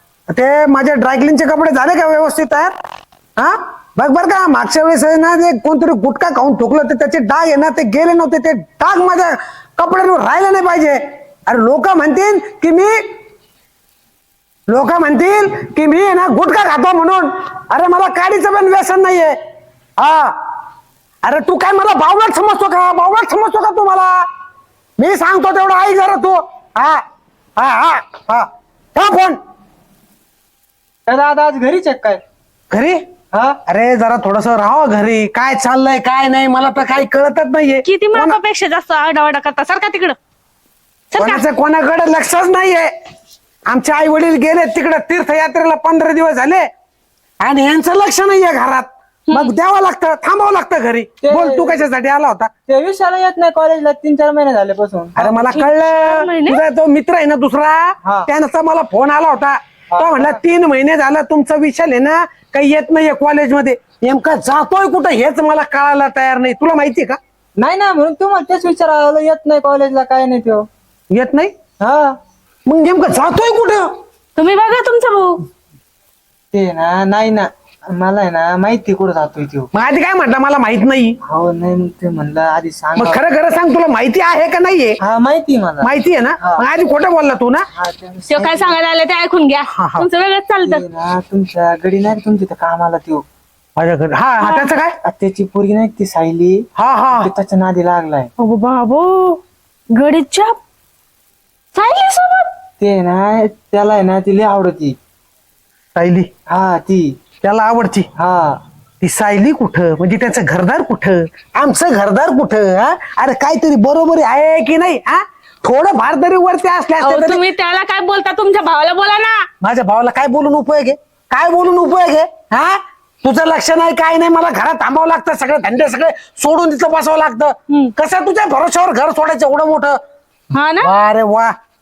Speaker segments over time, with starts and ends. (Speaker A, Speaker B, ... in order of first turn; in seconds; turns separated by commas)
Speaker A: 0.3-2.7, Speaker A: 3.4-13.0, Speaker A: 14.7-19.3, Speaker A: 20.0-20.4, Speaker A: 21.2-24.2, Speaker A: 25.0-27.0, Speaker A: 27.6-29.4, Speaker B: 31.1-32.2, Speaker A: 32.7-33.0, Speaker B: 33.3-33.6, Speaker A: 33.6-38.4, Speaker C: 37.8-40.1, Speaker C: 41.1-41.4, Speaker A: 41.1-42.9, Speaker A: 43.7-46.7, Speaker A: 47.4-52.5, Speaker C: 49.3-49.5, Speaker B: 51.2-51.9, Speaker B: 52.7-55.2, Speaker A: 55.1-67.2, Speaker C: 55.4-56.6, Speaker B: 58.0-58.3, Speaker B: 59.9-60.4, Speaker B: 67.6-70.7, Speaker A: 71.1-71.5, Speaker B: 71.8-72.1, Speaker A: 72.7-73.9, Speaker C: 74.3-75.4, Speaker B: 76.5-79.7, Speaker A: 79.7-81.2, Speaker B: 81.3-83.2, Speaker A: 83.0-85.0, Speaker B: 85.0-85.9, Speaker A: 85.8-87.6, Speaker B: 87.7-88.8, Speaker C: 88.3-90.8, Speaker A: 89.7-90.1, Speaker B: 90.6-93.2, Speaker A: 93.8-95.0, Speaker C: 94.4-94.7, Speaker B: 95.0-98.3, Speaker A: 96.8-97.3, Speaker C: 98.4-99.4, Speaker C: 99.9-100.6, Speaker C: 101.7-102.5, Speaker B: 102.8-105.0, Speaker A: 105.9-106.3, Speaker B: 106.5-107.2, Speaker A: 107.4-108.1, Speaker B: 108.2-108.6, Speaker A: 109.0-117.4, Speaker C: 117.0-119.5, Speaker A: 119.6-130.0, Speaker C: 130.5-130.9, Speaker A: 130.8-131.5